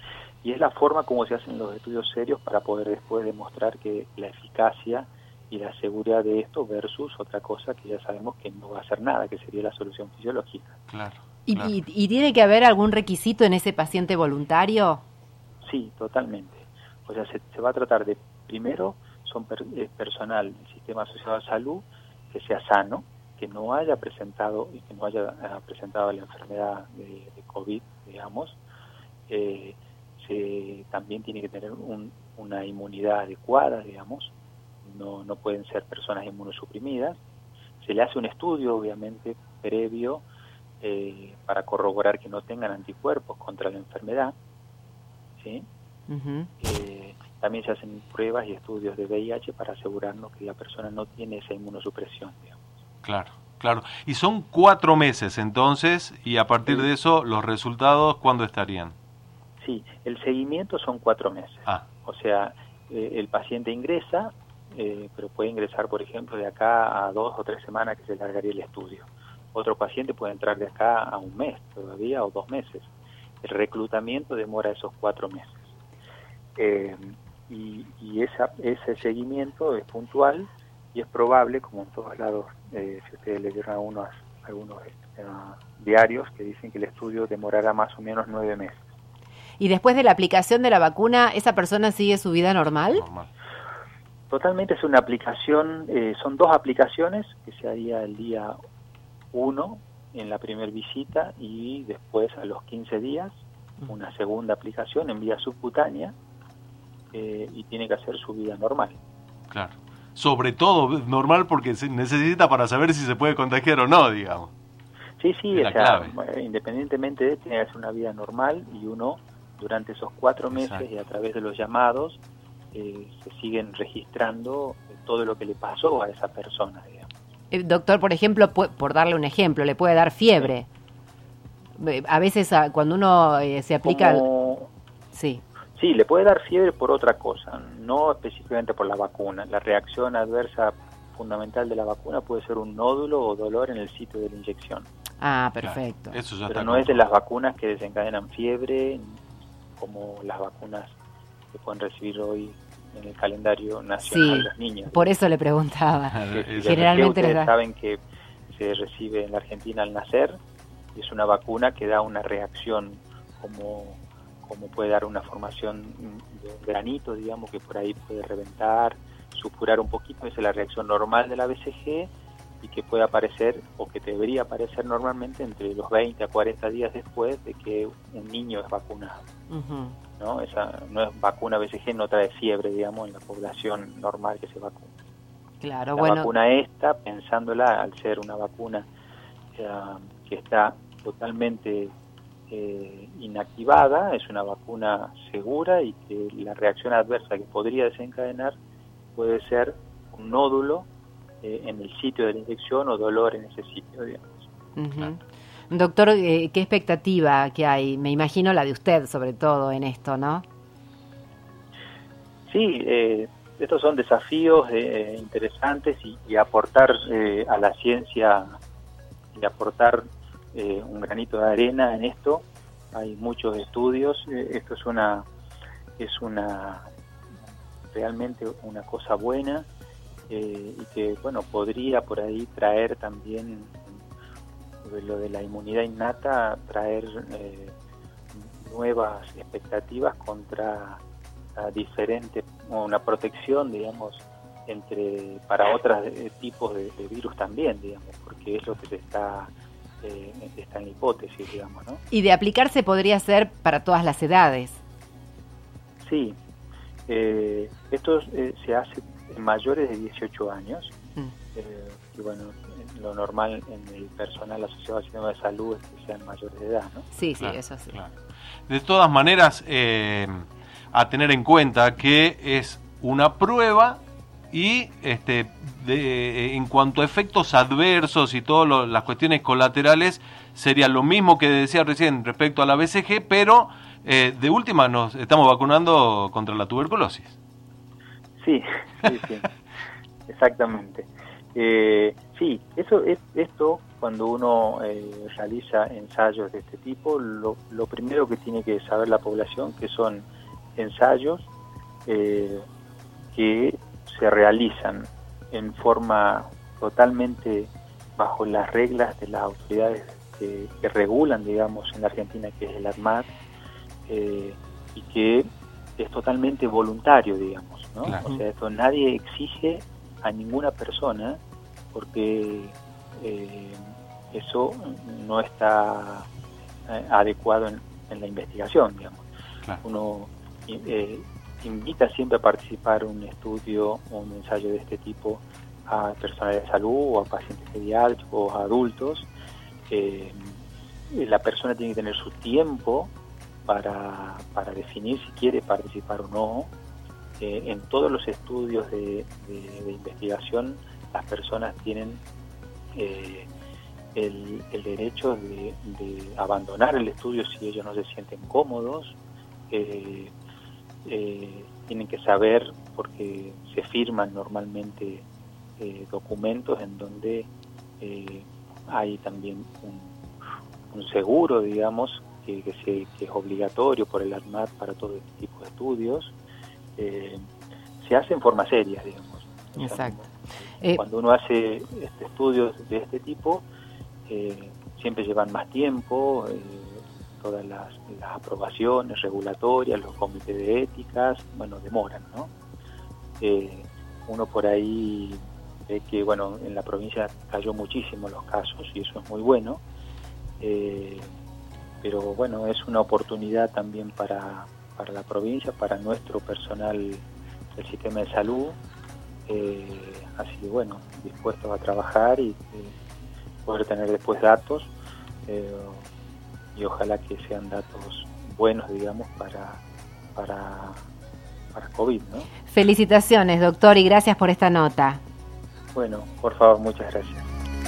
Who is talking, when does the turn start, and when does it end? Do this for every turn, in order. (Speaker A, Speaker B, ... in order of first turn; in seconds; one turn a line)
Speaker A: 0.4-10.7
Speaker B: 10.9-11.7
Speaker C: 11.5-15.0
Speaker A: 15.6-28.6
Speaker A: 29.3-34.3
Speaker A: 34.8-37.2
Speaker A: 37.8-40.2
Speaker A: 40.8-44.3
Speaker A: 45.4-45.6
Speaker C: 46.1-46.5
Speaker A: 46.6-52.6
Speaker B: 53.0-58.9
Speaker A: 59.6-72.9
Speaker A: 73.4-75.7
Speaker A: 76.6-88.8
Speaker C: 89.6-93.0
Speaker B: 92.9-93.3
Speaker A: 94.3-98.5
Speaker A: 99.3-106.1
Speaker A: 107.1-109.0
Speaker B: 109.5-114.5
Speaker A: 115.2-122.2
Speaker B: 115.5-116.2
Speaker B: 120.5-120.8
Speaker A: 122.7-127.1
Speaker C: 127.5-130.7
Speaker C: 131.8-134.2
Speaker A: 133.8-134.7
Speaker C: 135.1-135.4
Speaker A: 135.7-144.9
Speaker C: 145.2-146.2
Speaker B: 145.6-147.1
Speaker A: 146.5-149.2
Speaker A: 149.8-151.0
Speaker A: 151.5-155.1
Speaker C: 154.0-157.5
Speaker B: 156.1-156.9
Speaker A: 156.3-160.4
Speaker A: 160.9-172.1
Speaker A: 172.6-179.2
Speaker C: 179.5-180.0
Speaker A: 180.2-184.9
Speaker C: 185.6-186.3
Speaker A: 186.0-188.8
Speaker A: 189.5-191.9
Speaker A: 192.5-198.6
Speaker A: 199.2-200.9
Speaker A: 201.4-204.4
Speaker C: 204.8-210.4
Speaker A: 212.5-218.5
Speaker A: 219.3-225.2
Speaker A: 226.0-226.9
Speaker A: 227.9-229.7
Speaker A: 230.3-234.0
Speaker A: 234.8-237.7
Speaker A: 238.3-241.0
Speaker A: 241.6-252.0
Speaker C: 252.1-254.8
Speaker A: 256.0-256.4
Speaker A: 257.1-260.9
Speaker A: 261.5-267.1
Speaker C: 267.1-268.0
Speaker B: 267.4-268.1
Speaker B: 268.7-287.3
Speaker A: 288.4-289.5
Speaker A: 290.3-301.5
Speaker A: 302.1-302.6
Speaker A: 303.3-313.3
Speaker A: 314.1-321.4
Speaker B: 318.0-318.3
Speaker A: 321.9-326.3
Speaker A: 326.9-329.2
Speaker A: 329.8-339.3
Speaker A: 339.9-340.6
Speaker A: 341.1-343.1
Speaker A: 343.6-346.7
Speaker A: 347.4-352.2
Speaker A: 352.9-353.5
Speaker A: 354.1-359.1
Speaker A: 359.7-360.3
Speaker A: 361.0-365.2
Speaker A: 365.8-370.2
Speaker A: 370.9-376.3
Speaker A: 377.0-377.4
Speaker A: 378.0-380.3
Speaker C: 379.8-381.0
Speaker A: 380.9-383.6
Speaker A: 384.3-392.5
Speaker A: 393.4-399.8
Speaker A: 400.6-401.3
Speaker A: 402.0-407.2
Speaker A: 407.8-408.8
Speaker A: 409.5-412.9
Speaker A: 413.6-414.9
Speaker A: 415.5-416.1
Speaker A: 416.7-419.8
Speaker A: 420.3-421.0
Speaker A: 421.7-422.5
Speaker C: 422.7-425.2
Speaker A: 425.9-427.5